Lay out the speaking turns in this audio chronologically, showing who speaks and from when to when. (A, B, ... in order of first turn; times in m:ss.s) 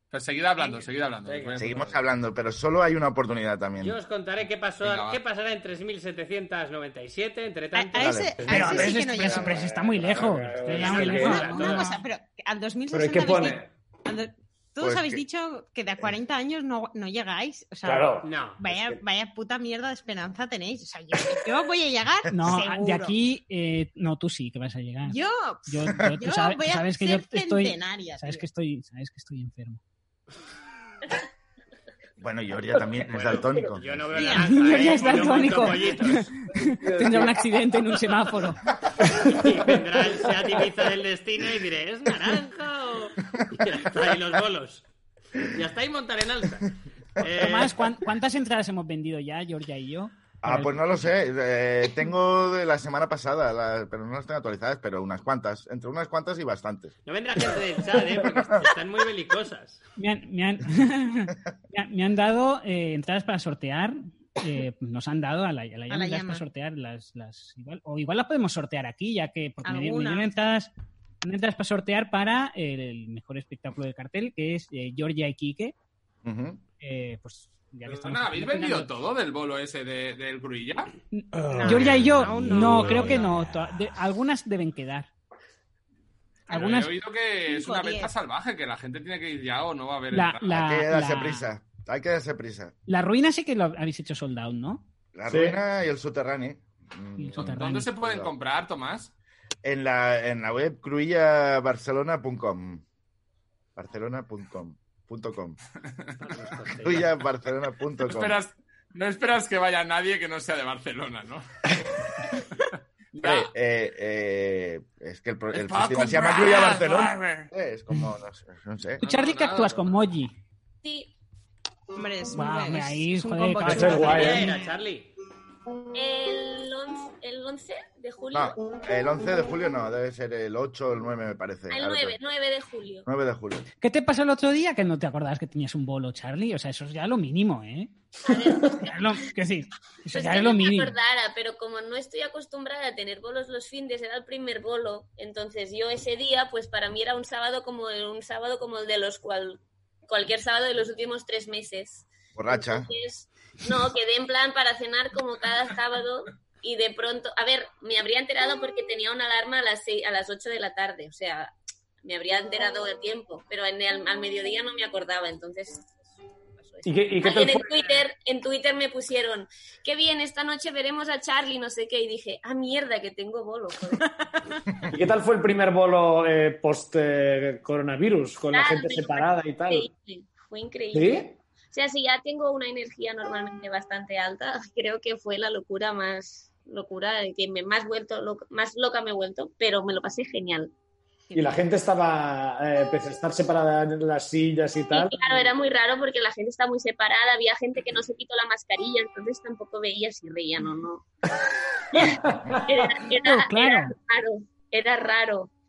0:00.1-0:02.0 A
0:01.2-0:01.7 B
0:01.6-0:04.0 C
0:03.8-0:08.3 B
0:04.8-0:05.2 A
0:07.7-0:09.6 D
0:08.0-0:08.3 C
0:08.4-0:11.6 E
0:08.5-0:12.0 F
0:10.7-0:11.9 B
0:10.9-0:23.1 D
0:12.9-0:13.7 E
0:14.8-0:15.2 C
0:17.8-0:19.0 E
0:18.2-0:18.6 B
0:22.3-0:29.8 F
0:25.0-0:28.4 D
0:32.2-0:33.8 C
0:33.0-0:36.3 B
0:34.1-0:35.7 D
0:34.4-0:38.7 F
0:36.6-0:38.0 E
0:39.0-0:39.4 E
0:39.2-0:44.8 B
0:40.1-0:40.6 E
0:45.4-0:48.0 B
0:47.3-0:50.8 F
0:50.4-0:56.9 C
0:57.0-0:59.8 B
0:58.2-0:58.7 C
1:00.0-1:10.7 F
1:05.9-1:06.4 D
1:09.6-1:10.3 D
1:11.2-1:15.7 F
1:16.2-1:16.6 C
1:16.8-1:18.9 F
1:17.8-1:20.9 A
1:21.1-1:25.1 F
1:21.5-1:23.3 D
1:22.7-1:23.2 E
1:26.5-1:26.9 F
1:26.5-1:30.6 A
1:27.5-1:28.1 D
1:30.1-1:31.5 F
1:30.5-1:32.7 C
1:32.9-1:34.8 F
1:35.1-1:38.3 C
1:35.3-1:35.6 E
1:37.2-1:37.9 F
1:37.4-1:39.1 A
1:39.6-1:42.8 C
1:43.8-1:45.6 C
1:46.2-1:47.1 B
1:46.8-1:48.4 C
1:48.0-1:51.4 A
1:52.3-1:53.5 A
1:53.1-1:59.0 C
1:55.5-1:57.5 A
1:59.0-1:59.9 A
1:59.0-2:00.3 F
2:00.8-2:01.1 G
2:01.9-2:04.7 D
2:02.3-2:04.4 F
2:03.6-2:04.5 E
2:03.9-2:05.1 B
2:05.9-2:08.6 G
2:08.3-2:12.2 C
2:11.7-2:13.1 G
2:13.0-2:13.6 C
2:13.8-2:17.9 F
2:18.2-2:19.2 G
2:18.7-2:20.9 F
2:20.1-2:41.5 G
2:32.4-2:32.9 C
2:42.0-2:46.1 G
2:46.6-2:54.1 G
2:46.8-2:48.0 E
2:54.9-2:59.9 E
2:58.5-3:10.7 G
3:00.9-3:01.4 E
3:11.3-3:11.6 D
3:11.3-3:15.4 E
3:14.9-3:21.0 G
3:21.9-3:22.8 E
3:21.9-3:25.5 G
3:23.2-3:23.9 F